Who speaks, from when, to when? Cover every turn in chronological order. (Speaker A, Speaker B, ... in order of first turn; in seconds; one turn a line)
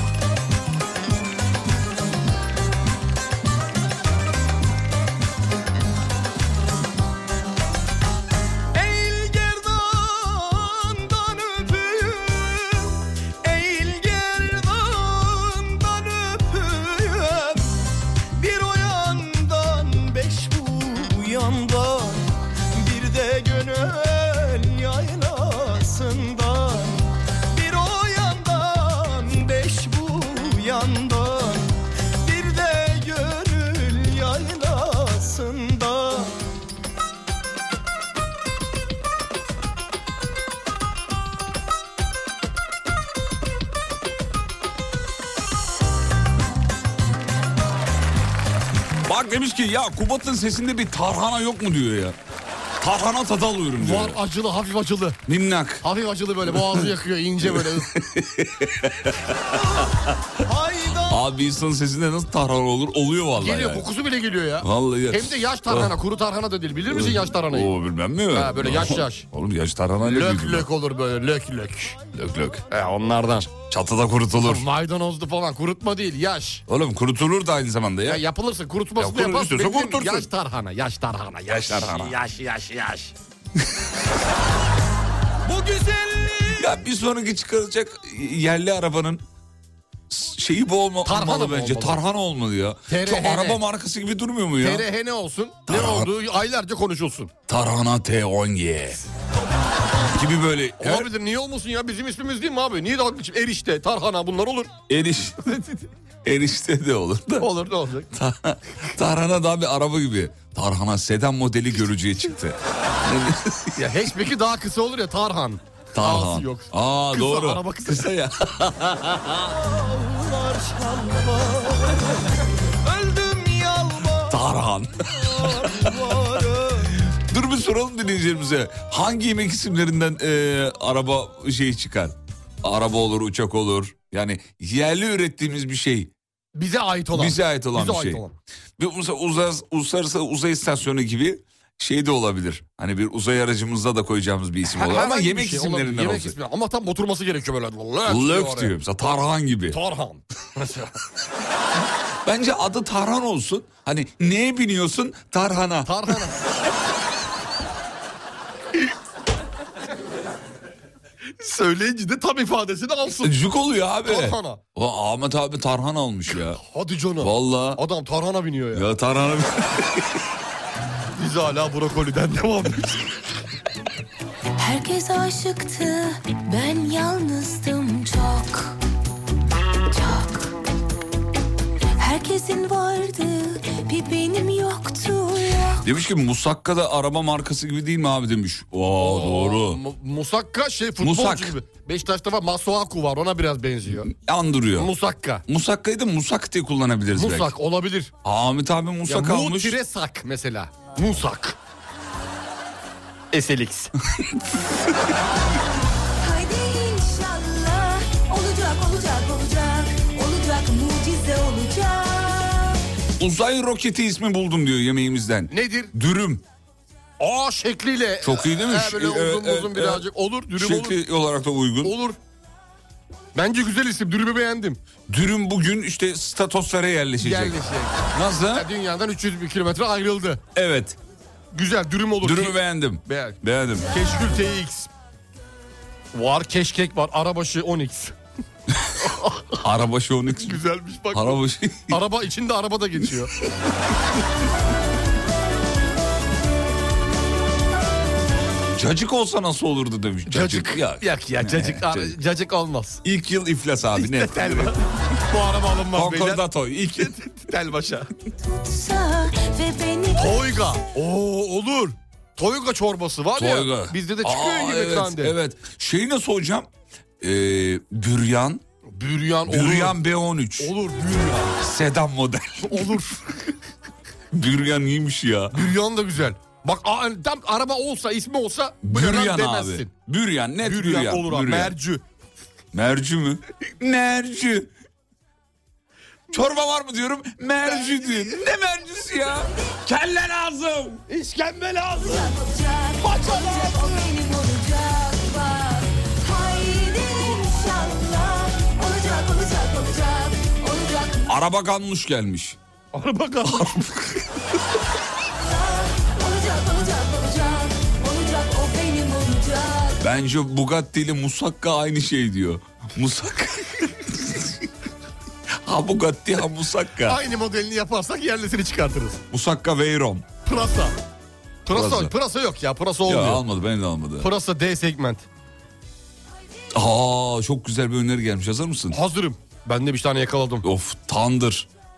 Speaker A: 8.7-17.7
Speaker A: 18.4-36.4
Speaker B: 49.0-52.2
Speaker B: 52.8-54.2
Speaker C: 53.8-55.2
Speaker B: 55.3-55.9
Speaker C: 55.8-57.9
Speaker B: 56.5-56.9
Speaker B: 57.5-59.4
Speaker A: 60.4-61.2
Speaker B: 61.1-63.9
Speaker C: 63.4-67.7
Speaker B: 64.6-65.9
Speaker B: 66.9-70.7
Speaker C: 68.3-69.2
Speaker C: 70.0-72.0
Speaker B: 72.1-72.6
Speaker C: 72.7-73.5
Speaker B: 73.7-74.6
Speaker C: 74.4-76.6
Speaker B: 76.7-78.2
Speaker C: 78.0-83.1
Speaker B: 79.0-80.3
Speaker B: 81.5-82.2
Speaker A: 85.5-86.6
Speaker B: 86.5-89.2
Speaker B: 90.1-94.8
Speaker C: 91.0-92.0
Speaker C: 92.9-93.6
Speaker C: 94.6-97.3
Speaker B: 95.7-96.1
Speaker B: 97.5-99.0
Speaker B: 100.1-101.1
Speaker C: 100.8-104.7
Speaker B: 104.9-105.5
Speaker B: 106.2-107.5
Speaker C: 107.4-108.1
Speaker B: 108.1-113.8
Speaker C: 113.8-118.1
Speaker B: 115.9-119.5
Speaker A: 119.5-122.2
Speaker A: 122.8-124.4
Speaker B: 124.3-125.9
Speaker A: 125.2-127.0
Speaker B: 127.1-136.1
Speaker C: 136.6-138.3
Speaker B: 137.1-138.2
Speaker B: 138.8-146.4
Speaker C: 144.7-148.8
Speaker B: 148.1-149.8
Speaker C: 149.7-150.9
Speaker B: 152.2-156.0
Speaker C: 155.8-156.3
Speaker C: 161.4-163.3
Speaker B: 163.2-166.6
Speaker C: 164.1-164.6
Speaker C: 166.6-168.9
Speaker B: 167.2-167.8
Speaker B: 168.7-170.2
Speaker C: 171.2-173.2
Speaker D: 184.2-185.7
Speaker B: 185.8-189.8
Speaker C: 189.0-194.1
Speaker B: 191.0-191.5
Speaker B: 194.1-194.9
Speaker C: 194.8-195.4
Speaker B: 195.5-197.6
Speaker C: 197.2-198.1
Speaker B: 198.2-199.8
Speaker C: 199.1-201.6
Speaker C: 203.3-203.9
Speaker D: 206.2-212.5
Speaker B: 213.2-216.4
Speaker C: 215.5-215.9
Speaker C: 217.2-221.0
Speaker B: 218.2-221.9
Speaker C: 221.8-222.2
Speaker C: 223.3-224.8
Speaker B: 225.1-228.7
Speaker C: 227.2-230.4
Speaker B: 230.6-231.0
Speaker C: 231.5-233.4
Speaker B: 232.2-233.9
Speaker C: 233.9-234.9
Speaker C: 236.1-238.2
Speaker C: 239.0-239.6
Speaker B: 239.6-240.6
Speaker C: 240.3-243.3
Speaker B: 241.1-242.0
Speaker B: 248.7-252.1
Speaker C: 250.3-253.0
Speaker B: 253.0-254.8
Speaker C: 254.0-254.8
Speaker C: 255.3-256.4
Speaker B: 255.9-257.2
Speaker C: 257.0-258.1
Speaker C: 260.2-265.4
Speaker B: 263.4-266.7
Speaker B: 267.2-268.6
Speaker C: 268.9-270.0
Speaker B: 269.5-270.7
Speaker C: 270.6-271.6
Speaker B: 271.6-273.0
Speaker C: 272.6-273.2
Speaker B: 274.3-275.6
Speaker C: 275.5-279.9
Speaker B: 278.8-281.7
Speaker C: 280.6-282.0
Speaker B: 282.7-284.7
Speaker B: 286.3-291.1
Speaker C: 291.1-292.3
Speaker C: 293.0-294.1
Speaker B: 301.3-302.6
Speaker C: 302.9-303.9
Speaker B: 303.5-303.9
Speaker D: 308.8-309.6
Speaker B: 310.0-314.7
Speaker B: 315.6-317.2
Speaker C: 317.1-319.2
Speaker B: 319.3-320.3
Speaker C: 320.4-321.0
Speaker C: 321.7-323.4
Speaker B: 321.7-322.1
Speaker B: 323.1-324.3
Speaker C: 324.2-325.2
Speaker B: 326.7-329.0
Speaker C: 328.9-330.6
Speaker B: 330.6-331.7